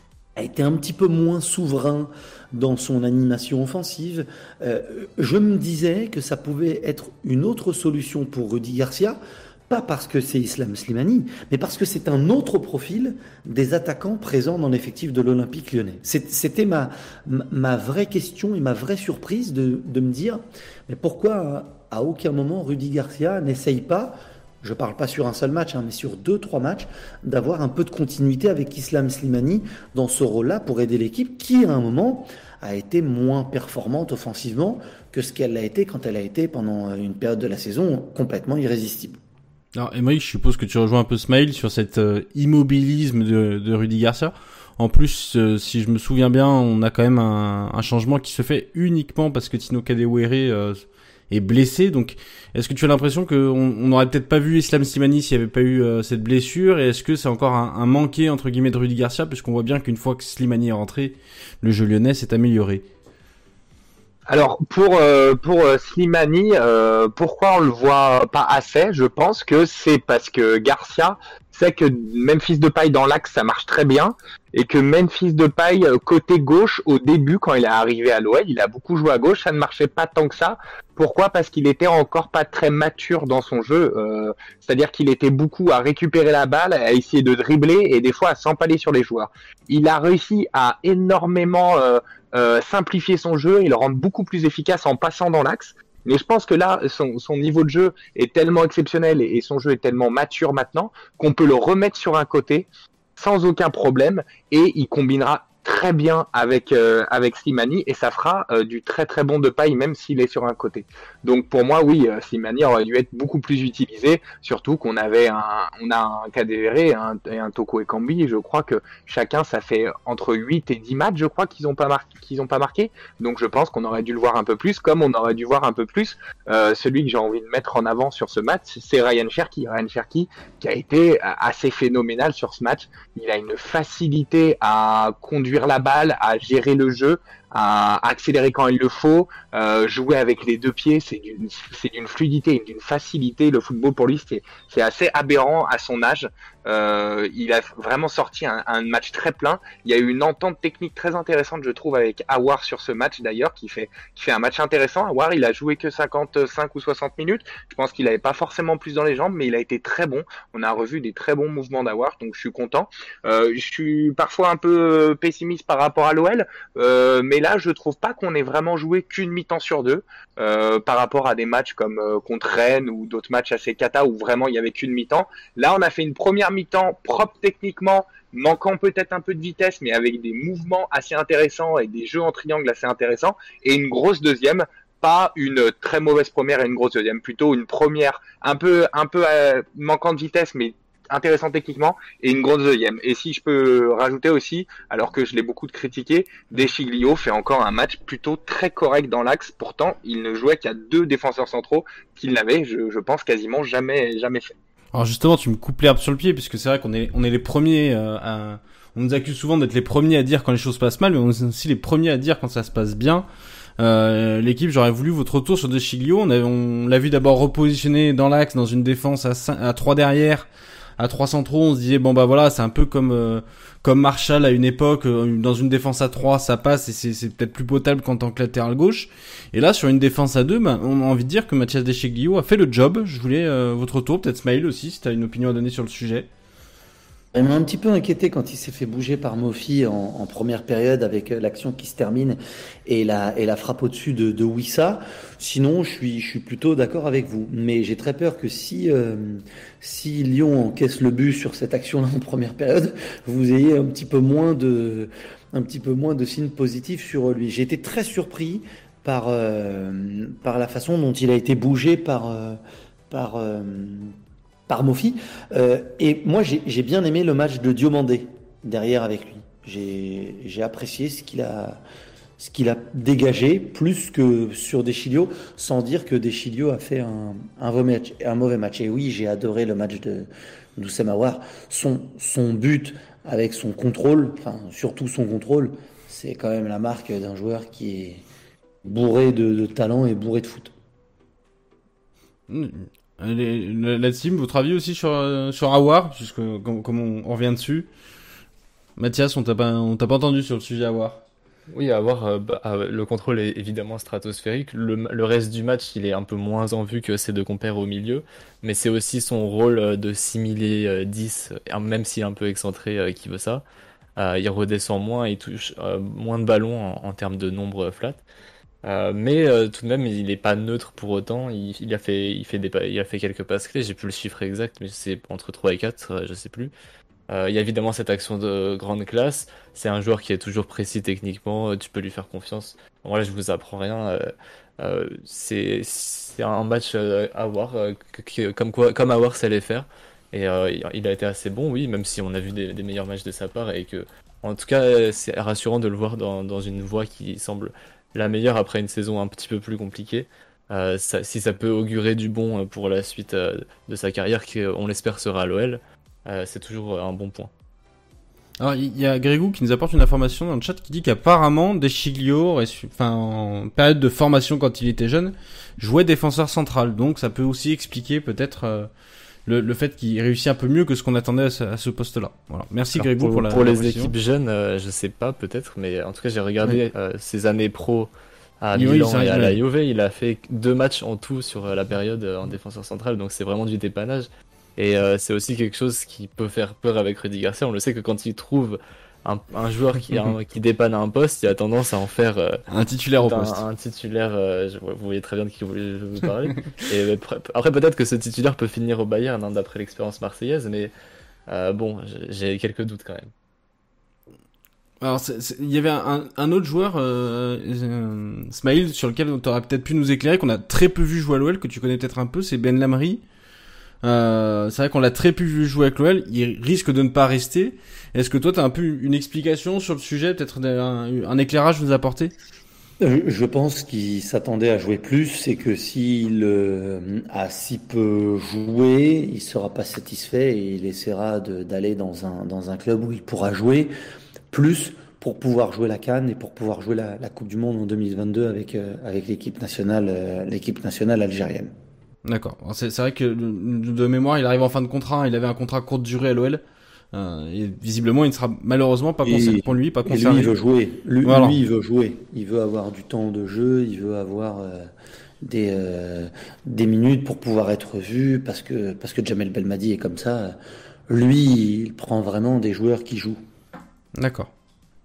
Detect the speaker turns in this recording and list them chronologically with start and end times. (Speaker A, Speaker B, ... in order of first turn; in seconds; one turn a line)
Speaker A: 0.3-9.2
Speaker A: 9.7-39.2
Speaker B: 39.7-62.8
Speaker C: 64.3-204.5
Speaker B: 204.9-213.2
Speaker B: 213.8-220.5
Speaker B: 221.0-236.3
Speaker A: 237.3-262.6
Speaker A: 263.1-264.1
Speaker A: 264.7-271.8
Speaker A: 272.4-288.2
Speaker A: 288.8-290.7
Speaker B: 292.5-297.9
Speaker B: 299.0-301.2
Speaker D: 301.7-313.6
Speaker D: 314.2-318.2
Speaker D: 318.8-326.7
Speaker D: 327.3-357.5
Speaker B: 358.6-368.9
Speaker B: 369.4-374.1
Speaker D: 372.9-392.6
Speaker B: 378.7-379.6
Speaker B: 392.7-393.6
Speaker D: 393.2-400.9
Speaker D: 401.5-403.3
Speaker B: 405.0-413.2
Speaker B: 414.0-422.3
Speaker A: 423.0-433.9
Speaker A: 434.5-441.7
Speaker B: 442.2-446.6
Speaker B: 447.1-450.5
Speaker A: 449.2-454.9
Speaker B: 451.2-451.6
Speaker A: 455.4-460.6
Speaker A: 461.1-463.4
Speaker B: 464.1-464.5